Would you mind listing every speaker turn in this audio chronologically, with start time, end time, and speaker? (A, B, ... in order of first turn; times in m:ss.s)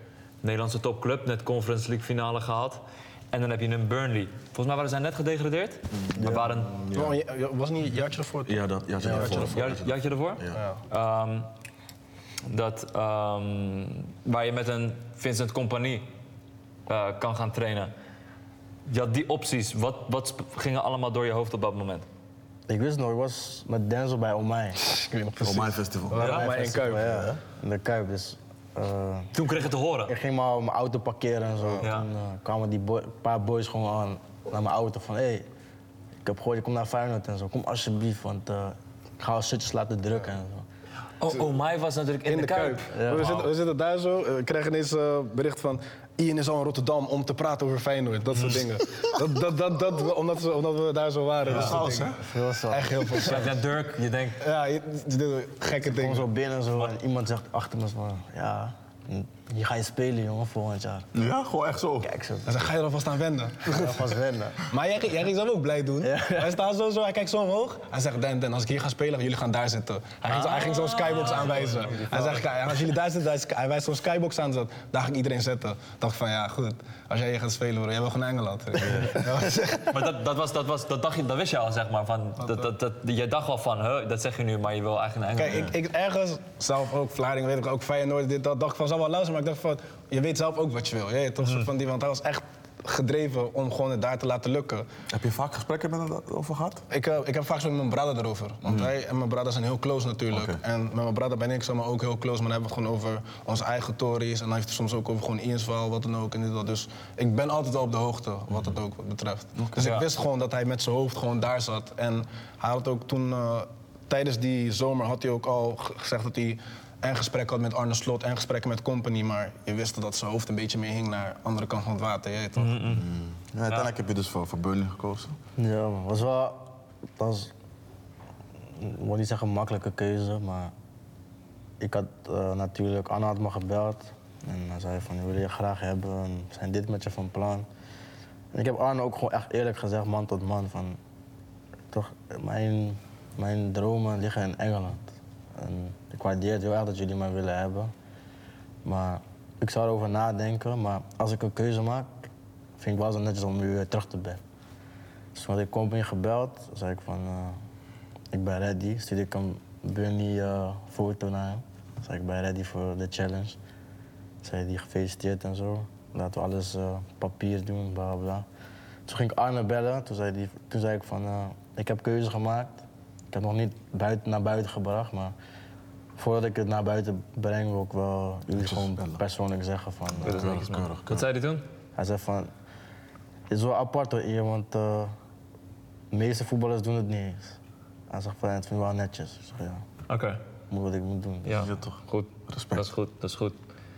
0:00.4-0:06.8 A
0:05.9-0:07.2 B
0:06.2-0:06.5 C
0:06.9-0:09.5 D
0:08.4-0:10.6 B
0:09.0-0:09.6 C
0:09.4-0:11.5 A
0:10.5-0:10.8 D
0:12.4-0:16.1 A
0:16.9-0:17.9 A
0:18.9-0:22.0 A
0:22.7-0:24.8 C
0:24.8-0:27.3 D
0:25.4-0:27.4 B
0:26.2-0:26.5 A
0:26.2-0:29.4 C
0:29.3-0:30.1 A
0:30.1-0:35.5 C
0:31.8-0:32.1 A
0:36.2-0:40.6 C
0:41.2-0:43.5 A
0:42.2-0:52.2 D
0:42.9-0:43.2 C
0:48.3-0:48.6 A
0:51.4-0:51.8 A
0:51.4-0:52.2 B
0:52.2-0:53.2 C
0:52.7-0:53.5 D
0:53.2-0:54.4 A
0:54.4-0:56.3 D
0:55.8-1:01.1 C
1:01.1-1:02.1 B
1:02.0-1:02.7 C
1:02.4-1:04.1 D
1:03.6-1:04.6 C
1:04.7-1:20.0 D
1:06.0-1:06.6 C
1:10.3-1:12.5 A
1:18.8-1:19.3 B
1:19.8-1:25.7 A
1:25.4-1:34.9 D
1:31.4-1:31.7 A
1:35.1-1:36.8 B
1:36.9-2:02.8 D
1:38.6-1:38.9 B
1:40.3-1:40.6 B
1:49.6-1:49.8 B
1:49.8-1:50.1 A
2:02.6-2:03.1 A
2:02.9-2:05.3 B
2:05.6-2:07.5 C
2:08.8-2:10.7 C
2:11.8-2:17.6 C
2:18.5-2:21.0 C
2:21.9-2:27.9 C
2:28.8-2:34.4 C
2:35.3-2:37.6 C
2:38.3-2:43.6 C
2:44.4-2:48.4 C
2:49.1-2:55.3 C
2:56.2-3:00.6 C
2:58.6-2:59.2 B
3:00.2-3:01.3 B
3:00.2-3:01.6 A
3:02.0-3:02.5 C
3:03.5-3:05.1 C
3:06.1-3:07.6 C
3:08.1-3:09.8 C
3:10.1-3:10.4 A
3:10.7-3:11.7 C
3:11.4-3:13.6 A
3:11.5-3:12.9 B